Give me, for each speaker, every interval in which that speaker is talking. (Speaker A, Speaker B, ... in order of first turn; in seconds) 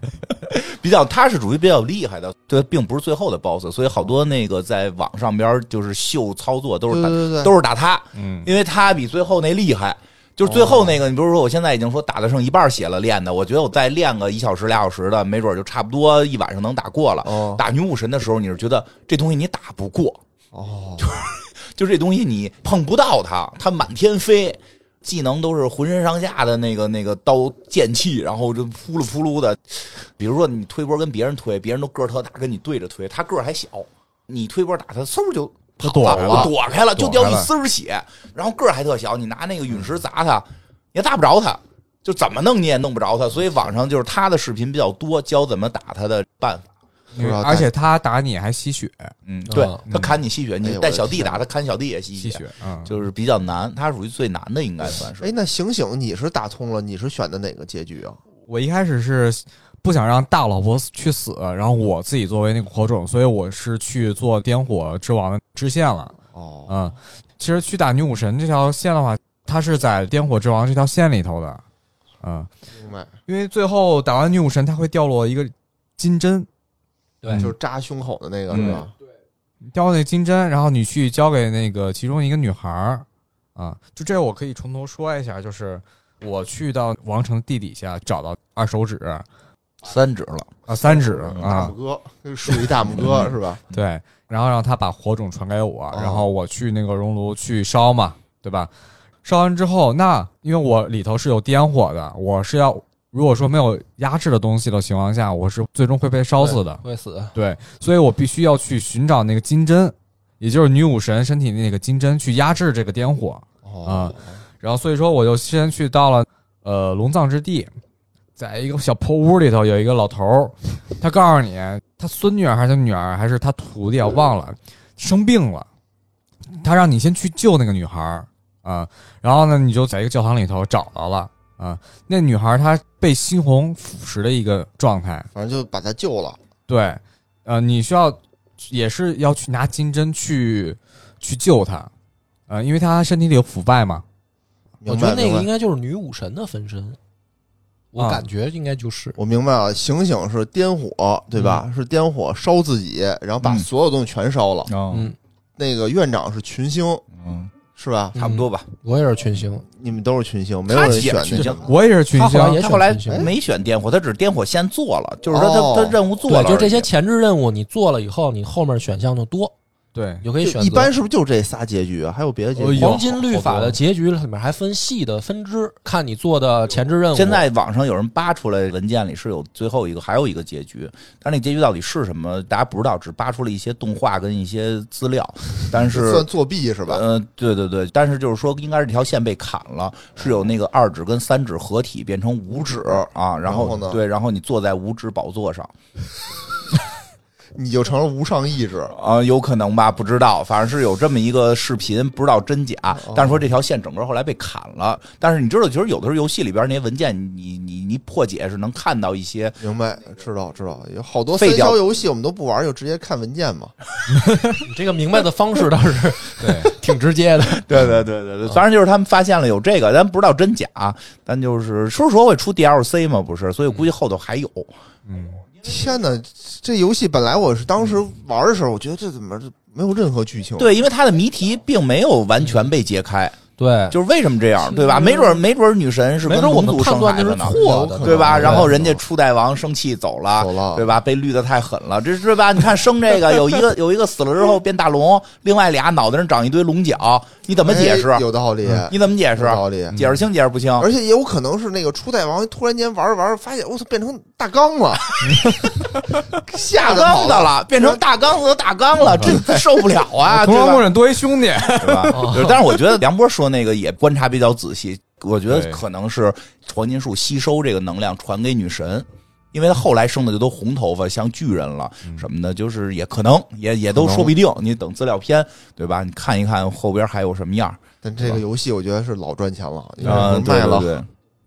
Speaker A: 0.3-20.2, 21.0-46.7, 49.3-55.3, 89.8-90.5, 153.4-153.7, 154.7-155.1, 157.2-157.5, 158.2-158.7, 160.7-161.6, 162.6-166.9, 177.1-186.3, 186.9-195.7, 198.9-209.6, 211.4-211.8, 217.6-224.7, 230.6-233.4, 233.9-248.2, 248.9-250.9, 256.5-260.9, 261.7-278.4, 280.0-281.1
Speaker B: 6.9-7.5, 10.4-11.0, 17.2-17.6, 20.5-21.1, 36.0-36.5, 47.2-47.7, 50.6-51.4, 55.2-58.2, 66.3-66.8, 72.8-73.1, 77.3-78.9, 90.8-93.6, 95.9-96.3, 113.6-114.4, 135.3-136.4, 144.8-145.5, 149.2-154.7, 155.6-157.0, 157.8-158.2, 159.7-161.7, 165.3-166.0, 170.4-173.2, 185.7-187.0, 190.2-190.5, 192.6-194.0, 197.6-198.9, 203.0-203.4, 209.6-213.8, 225.6-230.7, 237.4-239.0, 240.3-240.9, 247.6-250.0, 250.8-255.6, 256.5-258.0, 259.2-259.6, 273.9-274.3, 278.0-281.0
Speaker C: 8.2-8.5, 35.8-37.5, 47.1-49.1, 49.9-50.2, 52.2-52.9, 58.5-66.2, 66.7-71.6, 72.2-72.5, 73.3-76.5, 77.3-77.5, 78.5-78.8, 79.7-89.2, 90.7-91.8, 93.7-98.7, 99.2-106.8, 107.3-117.7, 118.4-125.7, 126.5-135.3, 136.7-141.9, 142.5-144.0, 148.0-148.2, 161.3-162.7, 169.9-170.3, 172.6-173.8, 214.1-214.6, 216.4-216.7, 225.1-225.4, 249.9-250.2, 255.3-256.3, 259.1-259.4, 260.2-263.0, 265.5-265.8
Speaker D: 49.5-49.9, 77.2-77.5, 106.4-107.3, 144.9-147.0, 147.9-149.2, 154.9-155.2, 158.2-159.7, 162.1-163.3, 166.3-169.5, 170.2-170.9, 172.7-177.4, 214.6-217.7, 233.6-234.0, 236.2-238.7, 262.1-262.6